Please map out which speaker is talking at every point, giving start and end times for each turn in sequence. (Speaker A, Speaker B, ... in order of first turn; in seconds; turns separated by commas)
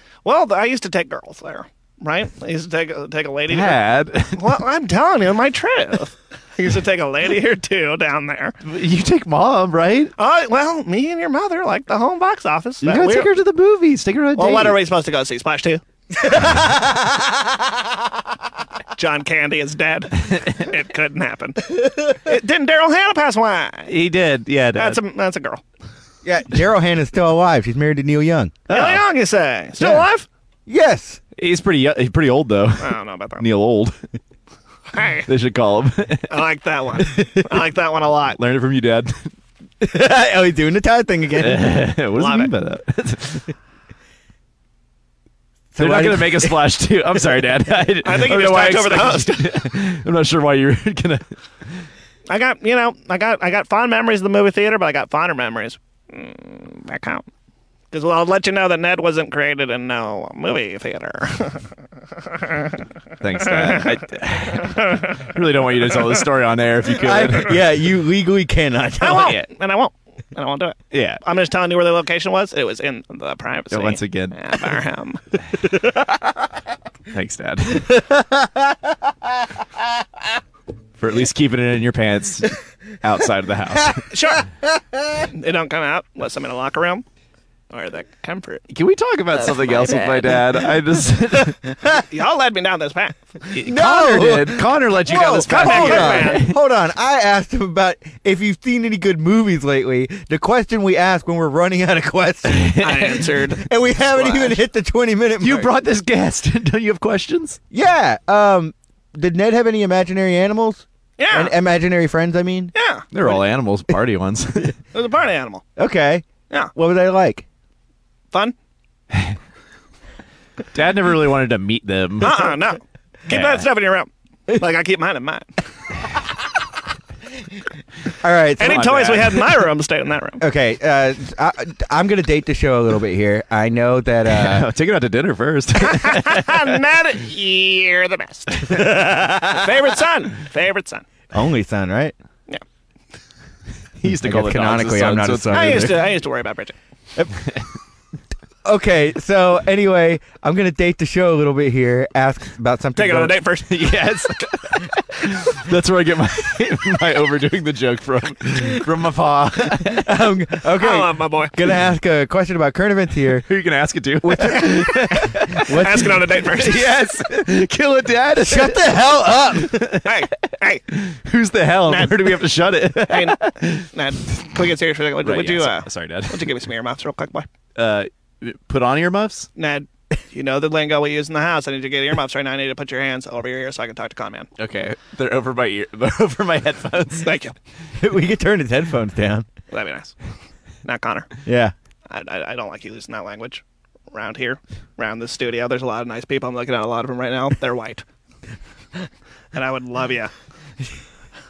Speaker A: 0.2-3.8, Speaker B: 3.5-4.6, Speaker A: 4.3-8.6, Speaker B: 8.6-10.1, Speaker A: 10.2-13.3, Speaker B: 12.8-14.8, Speaker A: 14.3-15.8, Speaker C: 16.2-17.5, Speaker A: 19.0-21.6, Speaker A: 22.2-23.9, Speaker B: 23.9-25.0, Speaker A: 24.7-25.6, Speaker C: 26.2-28.6, Speaker B: 28.7-29.0, Speaker A: 28.7-30.3, Speaker C: 29.8-30.0, Speaker C: 30.7-31.2, Speaker B: 31.4-34.0, Speaker A: 32.8-33.4, Speaker A: 34.9-35.3, Speaker B: 35.3-36.3, Speaker A: 36.3-38.4, Speaker B: 38.4-39.3, Speaker C: 39.8-41.7, Speaker B: 41.4-43.5, Speaker A: 42.1-42.5, Speaker C: 45.7-46.6, Speaker B: 45.8-51.2, Speaker A: 48.0-49.5, Speaker A: 52.3-57.3, Speaker A: 57.9-61.6, Speaker A: 62.3-62.7, Speaker B: 63.2-67.6, Speaker A: 63.5-63.9, Speaker A: 64.6-65.3, Speaker C: 67.0-69.3, Speaker A: 69.0-75.2, Speaker B: 69.1-69.4, Speaker B: 70.9-71.2, Speaker B: 73.7-74.4, Speaker B: 77.1-78.0, Speaker C: 77.9-78.9, Speaker B: 81.0-84.1, Speaker A: 84.1-84.5, Speaker C: 84.6-85.3, Speaker A: 85.3-87.0, Speaker A: 87.7-88.6, Speaker B: 88.7-91.6, Speaker A: 92.1-93.2, Speaker B: 93.5-96.5, Speaker C: 93.6-102.8, Speaker A: 95.5-96.5, Speaker B: 102.4-103.3, Speaker A: 102.8-104.6, Speaker C: 103.5-105.7, Speaker B: 105.4-107.6, Speaker C: 107.7-112.7, Speaker A: 111.2-111.5, Speaker A: 112.7-113.1, Speaker B: 113.1-114.8, Speaker A: 114.9-115.6, Speaker C: 115.8-117.4, Speaker B: 120.7-122.6, Speaker A: 122.2-125.5, Speaker B: 123.3-123.7, Speaker C: 128.2-128.9, Speaker A: 128.6-130.4, Speaker B: 128.6-129.6, Speaker C: 130.4-134.7, Speaker B: 134.2-136.8, Speaker A: 135.8-138.7, Speaker C: 138.7-139.7, Speaker A: 139.5-141.0, Speaker C: 141.3-142.1, Speaker B: 144.0-145.9, Speaker C: 144.1-146.0, Speaker A: 145.5-146.7, Speaker C: 148.6-153.4, Speaker A: 152.9-154.0, Speaker B: 153.7-160.1, Speaker C: 159.8-163.5, Speaker A: 160.8-161.5, Speaker B: 163.4-170.1, Speaker C: 164.2-166.2, Speaker A: 165.6-166.8, Speaker C: 168.4-169.9, Speaker A: 170.0-170.8, Speaker B: 170.9-173.8, Speaker A: 171.9-172.3, Speaker A: 173.1-177.5, Speaker B: 175.2-176.5, Speaker B: 177.8-179.5, Speaker A: 179.6-184.5, Speaker B: 184.6-187.4, Speaker A: 187.2-187.5, Speaker C: 188.0-189.5, Speaker A: 189.7-190.2, Speaker A: 190.8-191.3, Speaker C: 191.4-191.7, Speaker A: 192.1-198.0, Speaker A: 199.5-200.3